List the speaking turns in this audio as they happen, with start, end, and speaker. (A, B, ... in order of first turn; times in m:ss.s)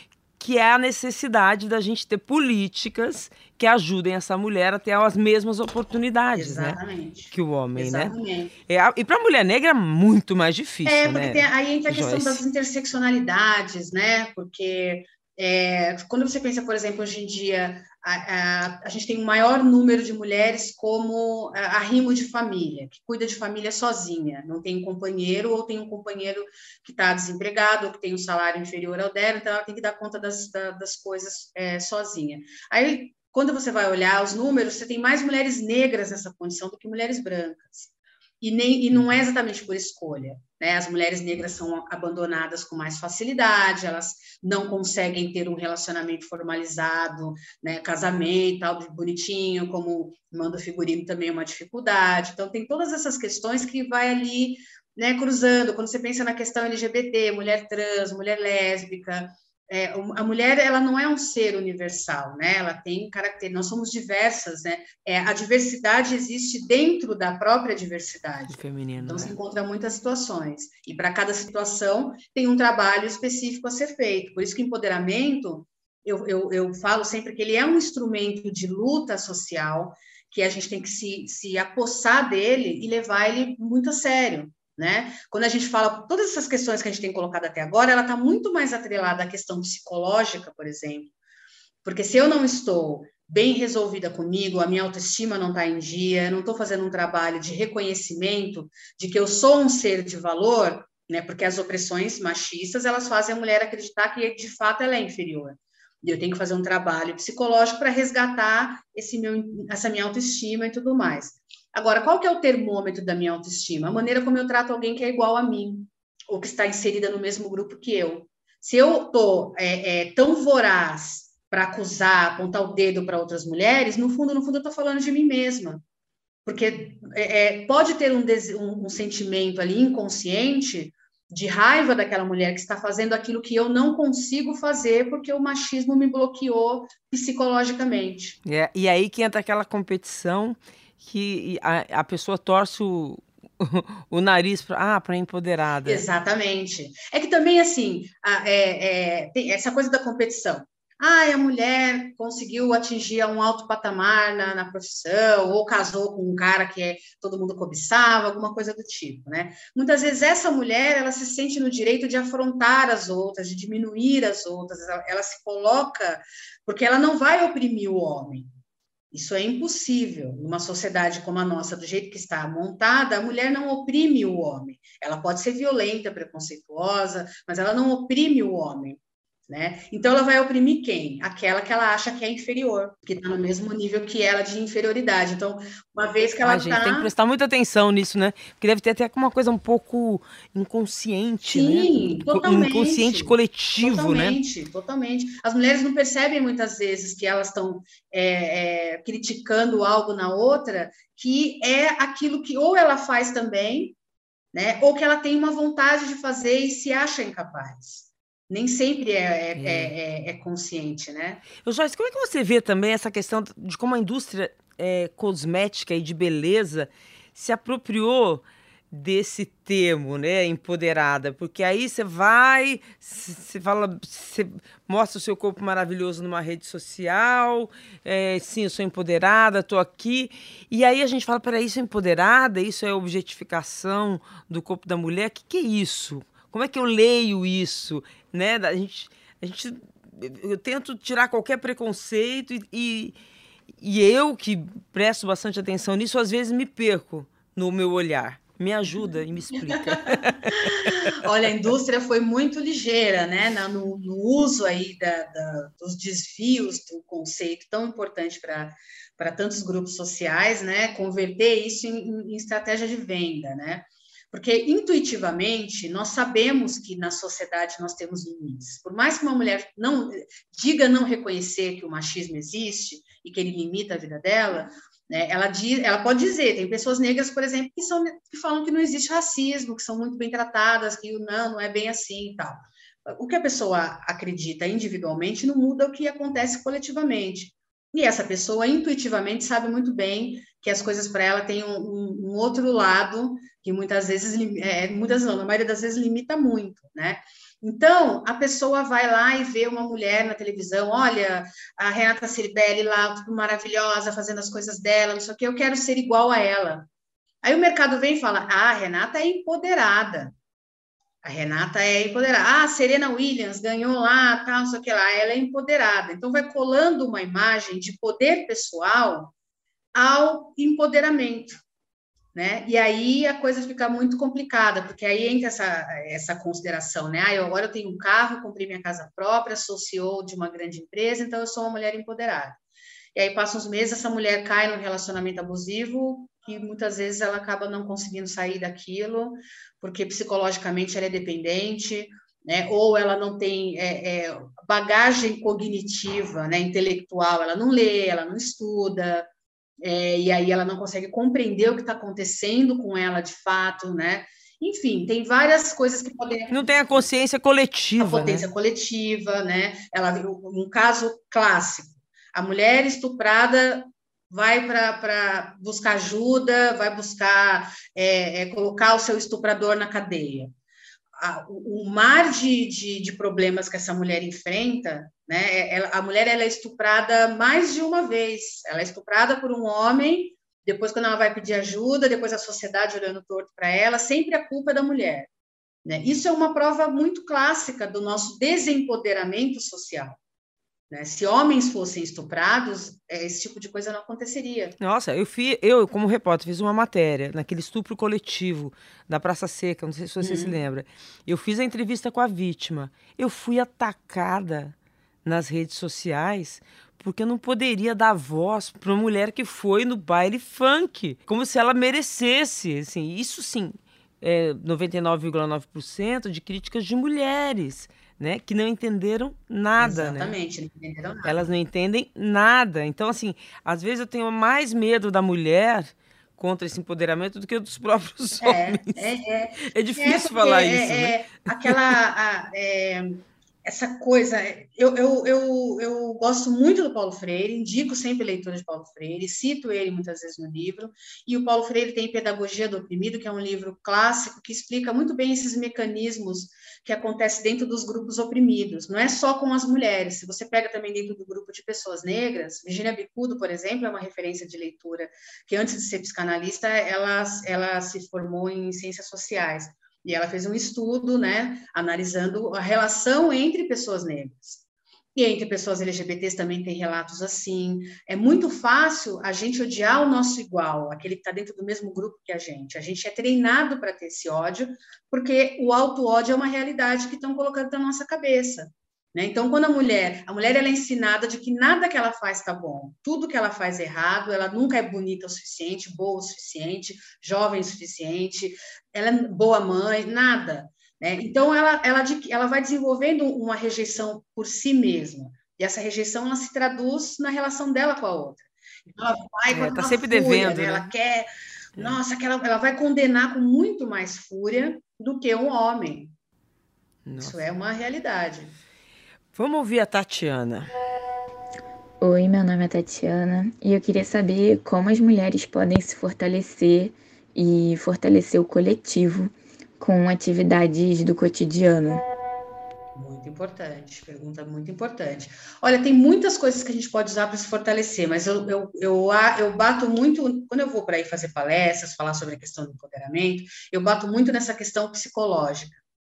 0:00.4-0:06.8 A
0:06.4-0:08.5 B
0:07.3-0:08.2 A
0:08.7-0:12.4 A
0:10.9-0:37.9 B
0:38.4-1:31.1 B
1:08.5-1:09.4 A
1:31.8-2:05.8 B
2:06.4-2:18.4 B
2:18.4-2:26.0 A
2:25.8-2:48.5 B
2:49.1-3:07.1 B
3:06.4-3:14.4 A
3:11.5-3:24.0 B
3:24.5-3:31.4 B
3:29.6-3:29.9 A
3:31.6-4:03.2 A
4:03.8-4:11.1 A
4:10.5-5:06.9 B
5:07.4-5:10.3 B
5:11.2-5:19.3 B
5:20.0-5:21.6 B
5:22.3-5:32.6 B
5:33.2-5:49.3 B
5:49.8-5:57.1 B
5:56.5-5:58.5 A
5:58.0-6:10.5 B
6:11.2-6:25.3 B
6:25.8-6:30.2 B
6:30.9-6:34.8 B
6:34.8-7:00.4 A
6:40.2-6:40.6 B
6:59.8-7:01.4 B
7:01.2-7:11.9 A
7:08.4-7:44.6 B
7:45.2-8:26.1 B
8:19.5-8:20.9 A
8:27.1-8:27.4 A
8:27.2-8:28.6 B
8:29.3-8:30.7 A
8:32.0-8:42.0 C
8:43.0-8:55.8 B